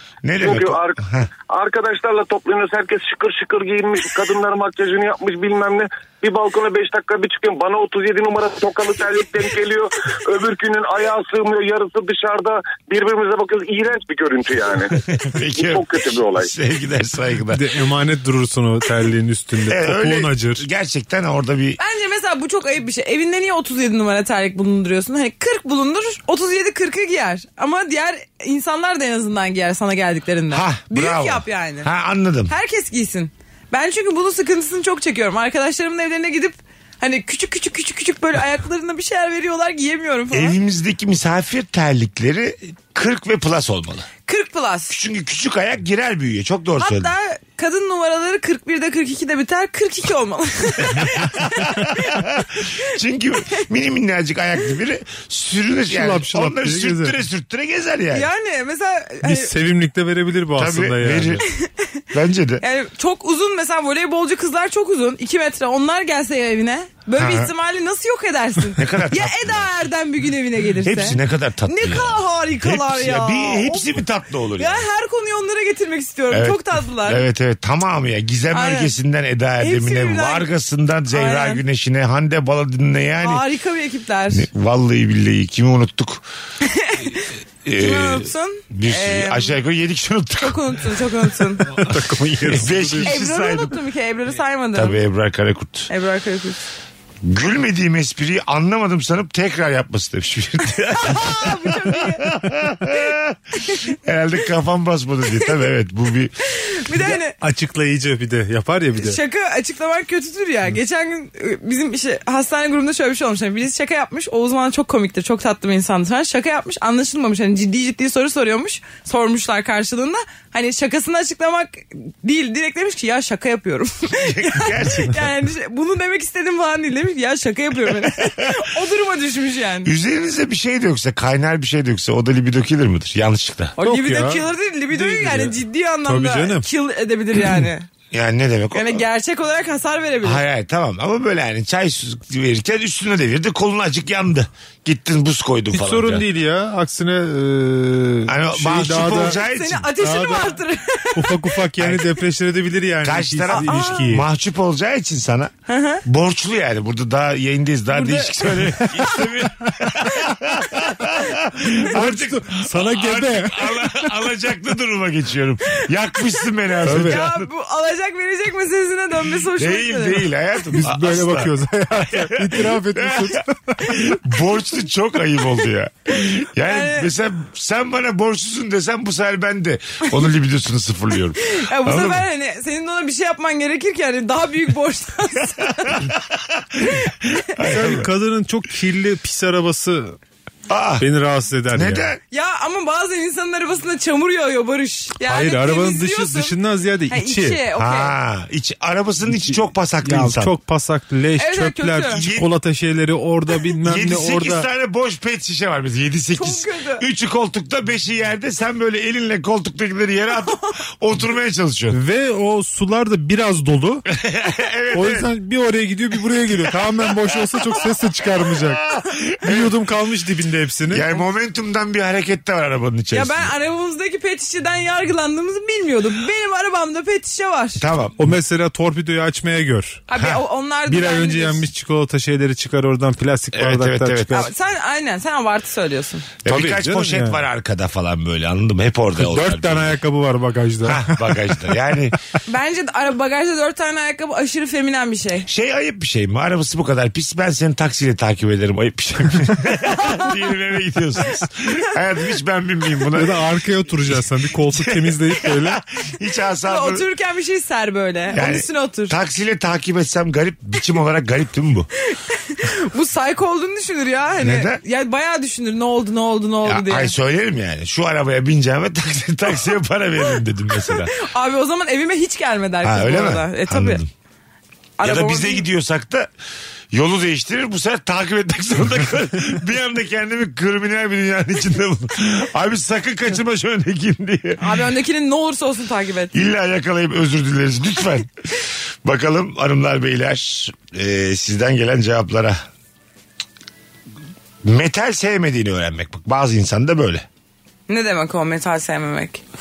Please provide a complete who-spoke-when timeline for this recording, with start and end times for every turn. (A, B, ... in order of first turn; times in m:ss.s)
0:00.2-0:01.3 A
0:00.4-0:14.9 B
0:15.0-0:17.6 A
0:15.6-0:16.5 B
0:17.5-0:20.6 C
0:19.7-0:21.8 A
0:21.8-0:31.9 D
0:30.5-0:32.5 A
0:32.5-0:40.6 D
0:40.3-0:44.1 A
0:44.3-0:44.9 D
0:44.9-0:47.1 A
0:46.8-0:52.1 D
0:51.0-0:58.3 A
0:55.9-0:57.2 C
0:58.1-0:59.5 D
0:59.2-1:01.4 C
1:00.6-1:01.4 A
1:02.1-1:02.6 A
1:02.6-1:13.9 D
1:07.1-1:07.5 A
1:08.7-1:09.7 A
1:10.8-1:14.8 A
1:14.6-1:17.2 D
1:16.3-1:23.4 A
1:18.5-1:18.9 D
1:19.6-1:20.5 D
1:21.1-1:21.6 D
1:23.2-1:24.5 D
1:24.3-1:26.2 A
1:26.6-1:29.6 D
1:27.6-1:31.0 A
1:30.4-1:31.7 D
1:31.7-1:33.1 C
1:32.4-1:33.8 A
1:33.0-1:35.0 D
1:34.7-1:35.9 A
1:35.9-1:36.6 D
1:37.2-1:43.4 A
1:40.9-1:42.3 D
1:43.9-1:46.3 A
1:46.6-1:47.3 D
1:47.0-1:49.2 C
1:49.0-2:09.9 D
2:04.1-2:05.3 A
2:09.8-2:13.7 A
2:13.8-2:16.7 C
2:13.8-2:17.9 D
2:18.1-2:19.0 A
2:18.7-2:20.4 D
2:20.2-2:26.2 A
2:25.7-2:29.4 C
2:28.3-2:29.9 A
2:29.2-2:31.6 D
2:30.0-2:30.6 C
2:31.2-2:34.2 C
2:31.8-2:32.0 A
2:33.0-2:35.5 A
2:33.5-2:34.1 D
2:35.7-2:36.0 D
2:36.0-2:47.5 A
2:37.9-2:39.2 D
2:41.8-2:44.0 C
2:46.8-2:47.2 C
2:46.9-2:50.3 D
2:49.5-2:51.5 A
2:50.7-2:54.1 C
2:52.1-3:02.2 A
2:56.6-2:57.1 D
3:01.4-3:06.0 D
3:05.9-3:07.0 A
3:06.8-3:07.1 D
3:07.6-3:08.1 A
3:07.6-3:10.2 C
3:10.7-3:11.1 A
3:11.0-3:12.1 C
3:11.7-3:12.2 A
3:12.3-3:16.5 D
3:15.2-3:17.6 C
3:17.1-3:18.1 D
3:17.8-3:20.5 A
3:19.4-3:24.7 C
3:21.4-3:22.2 D
3:22.2-3:22.5 A
3:23.8-3:32.0 A
3:26.3-3:27.0 D
3:31.9-3:34.0 C
3:34.1-3:35.3 A
3:34.9-3:38.9 C
3:37.2-3:37.8 A
3:38.6-3:39.7 A
3:39.4-3:41.1 C
3:40.9-3:43.5 A
3:43.1-3:47.8 D
3:47.8-3:48.2 A
3:48.2-3:50.0 C
3:50.1-3:51.7 D
3:50.9-3:54.5 C
3:53.5-3:54.5 A
3:54.3-3:56.3 D
3:56.4-4:00.0 A
3:56.5-3:57.4 C
3:59.2-4:01.6 C
4:00.8-4:02.1 A
4:02.5-4:05.5 D
4:05.4-4:13.4 A
4:09.9-4:10.3 D
4:13.1-4:15.8 C
4:14.1-4:17.0 A
4:16.6-4:19.1 D
4:18.3-4:21.9 A
4:22.1-4:27.1 D
4:24.4-4:24.8 A
4:26.6-4:31.1 A
4:30.8-4:34.0 D
4:32.8-4:34.1 A
4:35.0-4:35.6 D
4:35.0-4:36.3 A
4:36.9-4:44.7 A
4:44.6-4:46.3 D
4:46.3-4:52.6 A
4:54.6-4:57.2 A
4:57.9-4:59.4 D